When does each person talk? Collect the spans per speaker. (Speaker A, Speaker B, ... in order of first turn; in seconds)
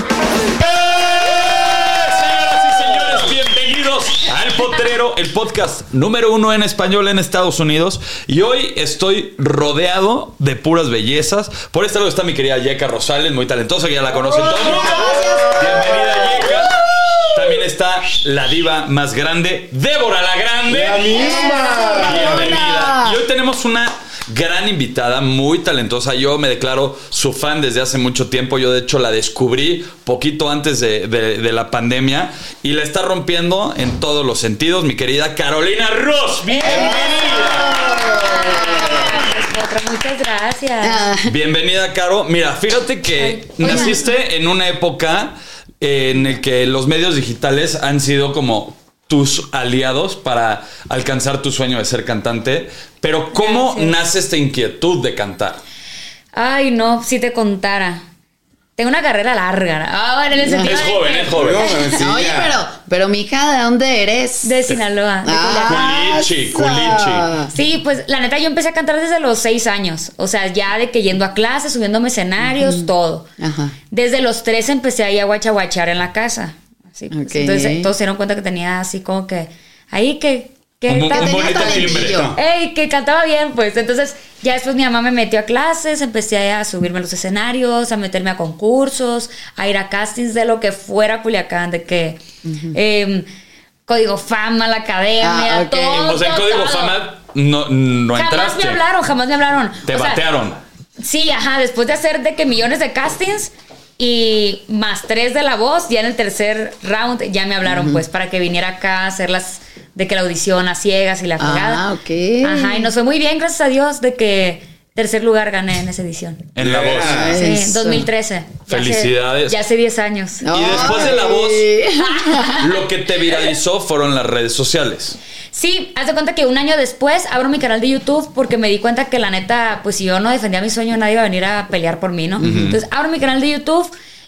Speaker A: 0.6-16.8, 17.3-21.4, 21.9-38.2, 41.3-55.6, 60.5-61.7, 65.7-67.3, 80.9-82.2, 95.9-98.8, 99.9-100.6, 116.5-117.3, 118.7-119.6, 120.5-121.8, 122.6-125.2, 132.4-132.8
Speaker B: 14.2-17.6, 21.1-23.2, 36.6-39.2, 40.8-41.3, 43.6-44.1, 60.4-60.8, 62.0-64.6, 65.2-67.5, 72.4-73.8, 77.1-77.9, 81.1-82.3, 92.4-92.8, 95.2-96.1, 107.6-108.0, 111.4-112.9, 117.0-118.1, 120.4-122.7, 132.4-132.7
Speaker C: 14.4-16.2, 20.7-22.7, 61.3-62.6, 81.7-82.4, 116.6-117.4
Speaker D: 36.5-37.5, 38.0-41.0, 43.2-44.1, 53.3-53.9, 56.4-58.0, 58.8-61.3, 64.4-65.8, 67.5-73.3, 73.9-81.8, 82.3-92.2, 92.7-93.3, 93.9-97.0, 98.2-100.2, 101.0-111.8, 112.4-116.5, 117.3-120.5, 122.0-122.8, 125.5-133.9